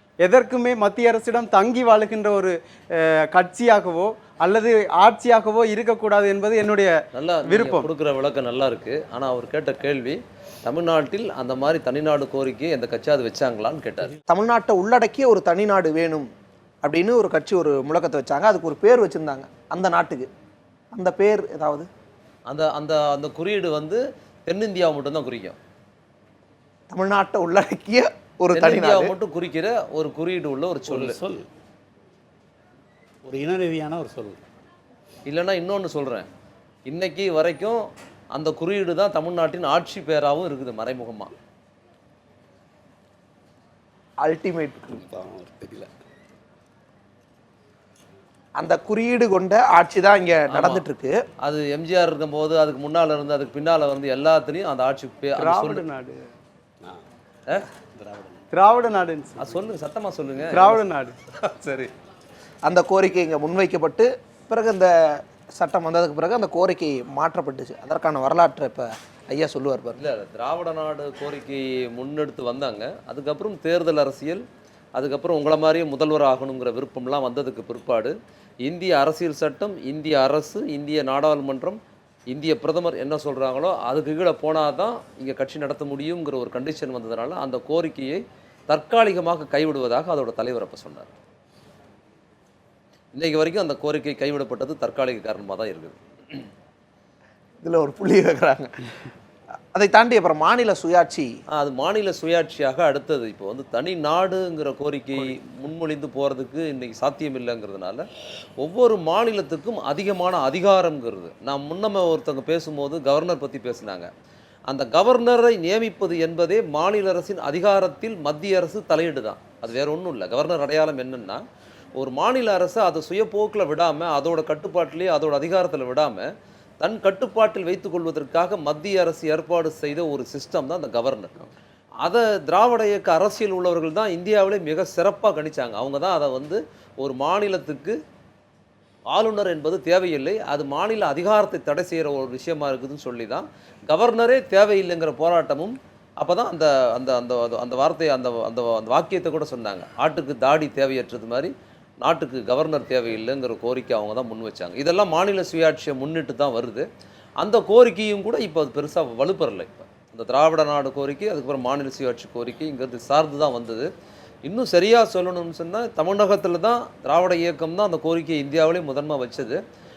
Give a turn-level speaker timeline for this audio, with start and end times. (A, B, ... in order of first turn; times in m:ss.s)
0:00.2-0:06.9 A
0:07.1-0:14.2 B
0:07.5-0:07.9 A
0:14.3-0:16.3 C
0:16.8-0:20.3 C
0:20.9-0:21.9 C
0:22.5-0:25.6 B
0:26.9-0:29.1 C
0:28.5-0:31.2 B
0:30.9-0:31.5 D
0:33.2-0:34.4 D
0:35.3-0:36.3 B
0:36.9-0:37.8 B
0:38.3-0:41.3 B
0:44.2-0:45.0 C
0:44.9-0:45.9 D
0:48.6-0:51.2 C
0:50.5-0:50.8 B
0:51.4-0:55.8 B
0:55.4-0:56.3 A
0:58.0-0:58.4 D
0:58.5-0:59.5 A
0:59.4-1:00.8 B
1:00.5-1:01.2 A
1:01.4-1:01.9 B
1:02.6-1:10.0 C
1:09.9-1:14.4 B
1:15.0-1:21.8 B
1:22.3-1:31.1 B
1:33.1-1:36.0 B
1:37.6-1:38.7 C
1:39.7-1:41.3 C
1:41.5-1:48.0 B
1:48.6-1:54.1 B
1:54.7-2:01.4 B
2:02.0-2:06.3 B
2:06.8-2:11.5 B
2:12.0-2:18.0 B
2:19.1-2:31.5 B
2:32.0-2:36.8 B
2:37.4-2:43.9 B
2:44.4-2:49.6 B